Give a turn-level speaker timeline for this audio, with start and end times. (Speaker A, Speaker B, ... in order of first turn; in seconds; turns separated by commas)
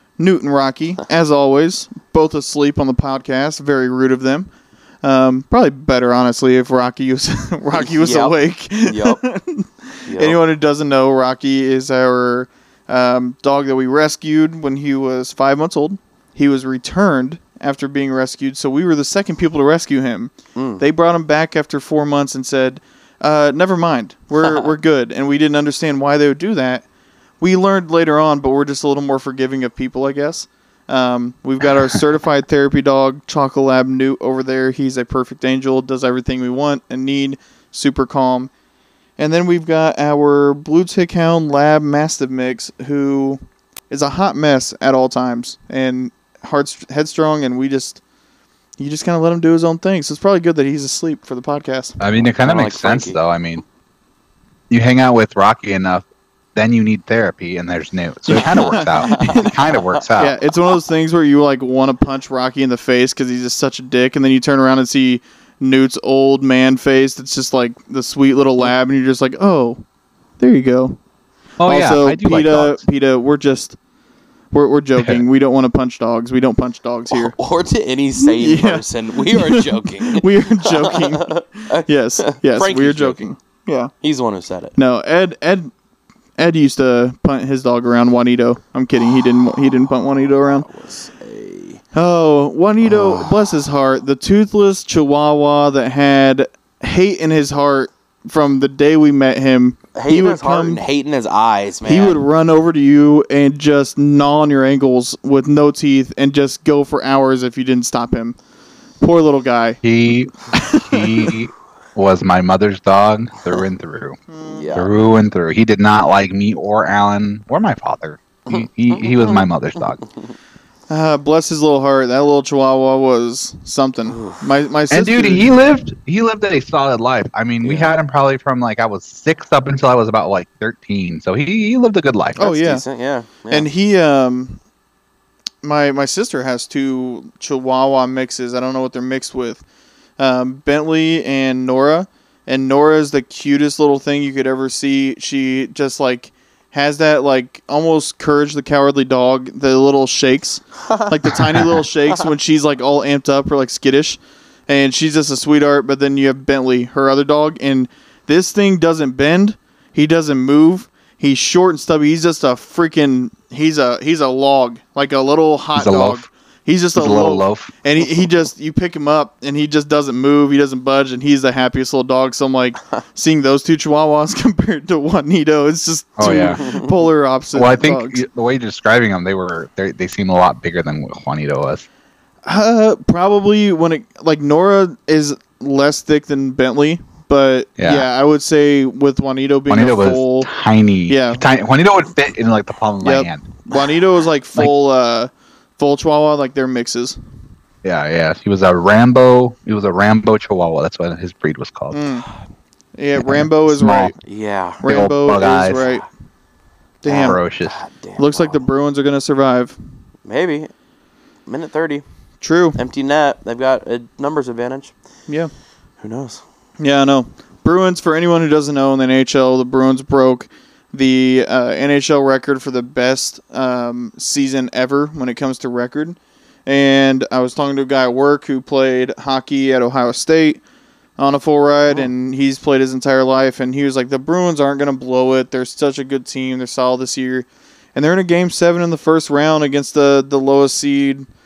Speaker A: 0.2-4.5, Speaker A: 5.0-26.9, Speaker B: 7.7-9.2, Speaker B: 10.1-10.4, Speaker B: 20.6-20.8, Speaker B: 24.4-24.7, Speaker A: 27.4-38.5, Speaker A: 39.2-43.4, Speaker A: 43.9-48.0, Speaker A: 48.8-52.0, Speaker C: 52.0-53.6, Speaker B: 52.1-53.2, Speaker C: 54.7-60.4, Speaker A: 58.3-59.5, Speaker B: 58.8-59.5, Speaker A: 60.2-69.8, Speaker A: 70.4-71.0, Speaker C: 71.6-72.8, Speaker A: 71.6-73.8, Speaker A: 74.5-77.3, Speaker C: 75.0-75.2, Speaker B: 77.1-83.2, Speaker A: 78.2-83.9, Speaker B: 84.0-84.8, Speaker A: 84.8-85.7, Speaker A: 86.4-90.7, Speaker B: 90.6-91.8, Speaker A: 91.9-100.8, Speaker B: 100.0-102.2, Speaker A: 101.8-108.4, Speaker A: 109.0-109.8, Speaker C: 109.8-114.2, Speaker A: 110.5-111.3, Speaker A: 114.3-114.8, Speaker B: 114.4-114.9, Speaker C: 114.7-120.0, Speaker B: 118.5-119.5, Speaker A: 120.9-125.5, Speaker B: 124.1-124.4, Speaker C: 124.9-132.5, Speaker B: 127.6-127.9, Speaker A: 132.4-132.8, Speaker B: 132.4-133.7, Speaker A: 133.5-134.6, Speaker A: 135.6-139.6, Speaker A: 140.2-178.2, Speaker C: 165.8-166.2, Speaker C: 166.9-167.7, Speaker C: 176.2-176.6, Speaker B: 176.3-176.9, Speaker C: 177.5-181.9, Speaker A: 182.4-190.5, Speaker C: 187.8-188.1, Speaker C: 189.7-193.4, Speaker A: 191.1-191.4, Speaker A: 193.0-197.2, Speaker C: 197.8-202.0, Speaker A: 201.9-202.3, Speaker A: 203.0-204.2, Speaker C: 203.2-204.1, Speaker B: 204.2-204.8, Speaker A: 204.8-206.1, Speaker C: 204.9-205.9, Speaker B: 205.4-206.0, Speaker A: 207.0-207.4, Speaker C: 207.1-207.8, Speaker B: 207.1-208.6, Speaker A: 208.2-209.8, Speaker B: 210.3-210.7, Speaker B: 211.5-212.0, Speaker A: 212.4-212.8, Speaker B: 212.8-214.9, Speaker B: 216.0-216.4, Speaker A: 216.8-230.6, Speaker A: 231.2-241.3